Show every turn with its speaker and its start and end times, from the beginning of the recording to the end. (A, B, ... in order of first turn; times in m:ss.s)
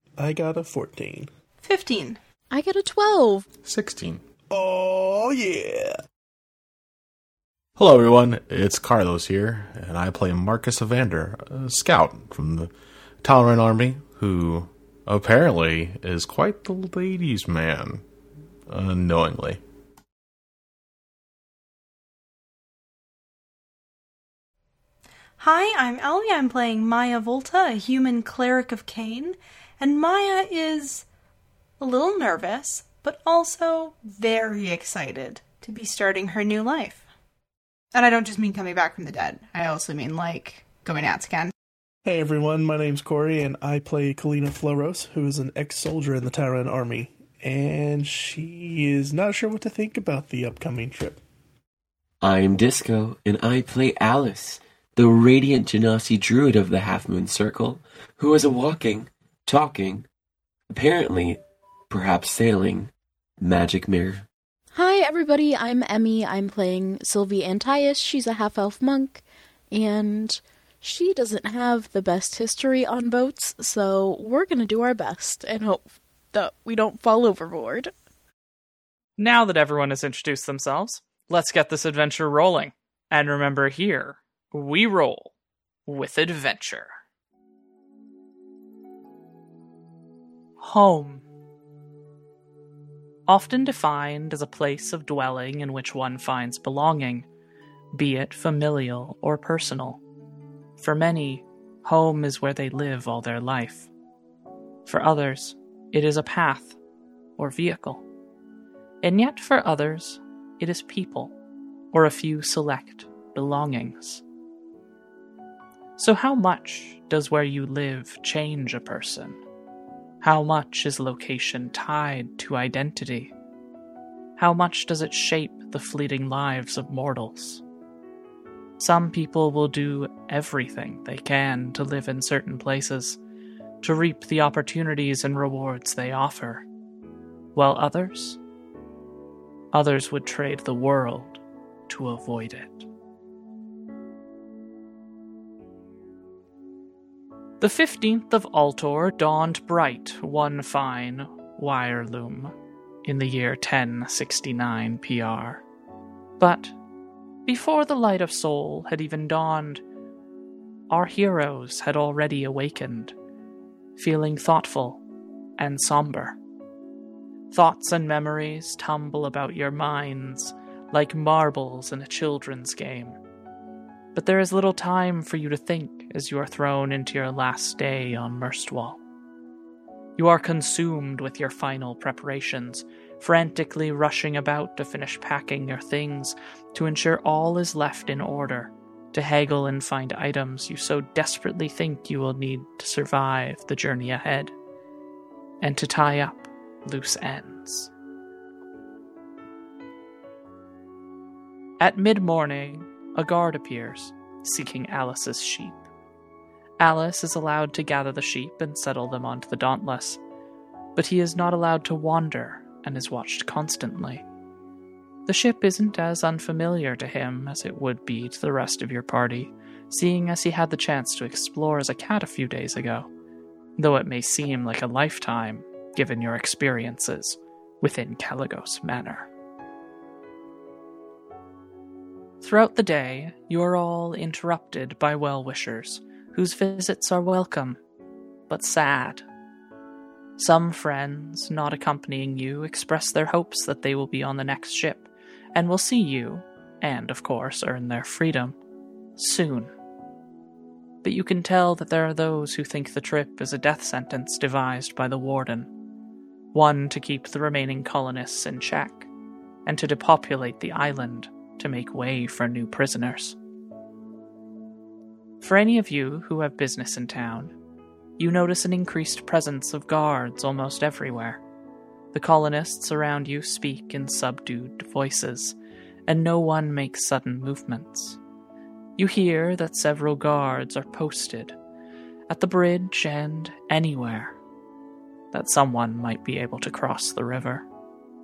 0:00.2-0:01.3 A
0:01.6-0:02.2 B
0:02.5-0:03.5 C
0:03.6-0:04.2 D
0:04.5-0:06.0 A
0:07.8-0:12.7 D
0:13.2-0:18.0 D
0:18.7-0:19.6 D
0:25.4-0:31.0 B
0:31.8-0:37.0 B
0:37.9-0:41.5 B
0:42.1-0:51.2 A
0:52.2-1:00.1 E
1:00.7-1:04.3 E
1:04.7-1:17.9 C
1:19.2-1:25.3 F
1:25.9-1:27.0 F
1:30.6-1:31.2 F
1:33.3-1:37.3 F
1:37.9-1:40.0 F
1:40.8-1:43.9 F
1:44.9-1:46.8 F
1:47.4-1:48.0 F
1:49.0-1:51.4 F
1:51.9-1:54.2 F
1:56.0-1:59.4 F
2:00.2-2:03.3 F
2:04.4-2:07.6 F
2:08.8-2:13.2 F
2:13.8-2:16.7 F
2:17.6-2:18.4 F
2:19.7-2:22.9 F
2:27.6-2:32.5 F
2:33.0-2:35.6 F
2:36.4-2:36.8 F
2:37.5-2:39.8 F
2:40.9-2:43.1 F
2:44.0-2:45.0 F
2:45.6-2:46.4 F
2:47.5-2:53.2 F
2:54.2-2:59.0 F
3:00.2-3:14.6 F
3:15.6-3:17.9 F
3:21.8-3:25.8 F
3:26.8-3:30.2 F
3:31.0-3:34.2 F
3:35.3-3:43.1 F
3:43.8-3:49.3 F
3:52.4-3:57.8 F
3:58.5-3:59.3 F
4:00.4-4:08.6 F
4:09.2-4:09.7 F
4:11.0-4:15.7 F
4:16.5-4:19.1 F
4:19.7-4:23.4 F
4:25.4-4:27.5 F
4:28.2-4:31.4 F
4:32.1-4:35.6 F
4:36.1-4:38.2 F
4:39.0-4:41.6 F
4:42.3-4:44.4 F
4:45.3-4:47.7 F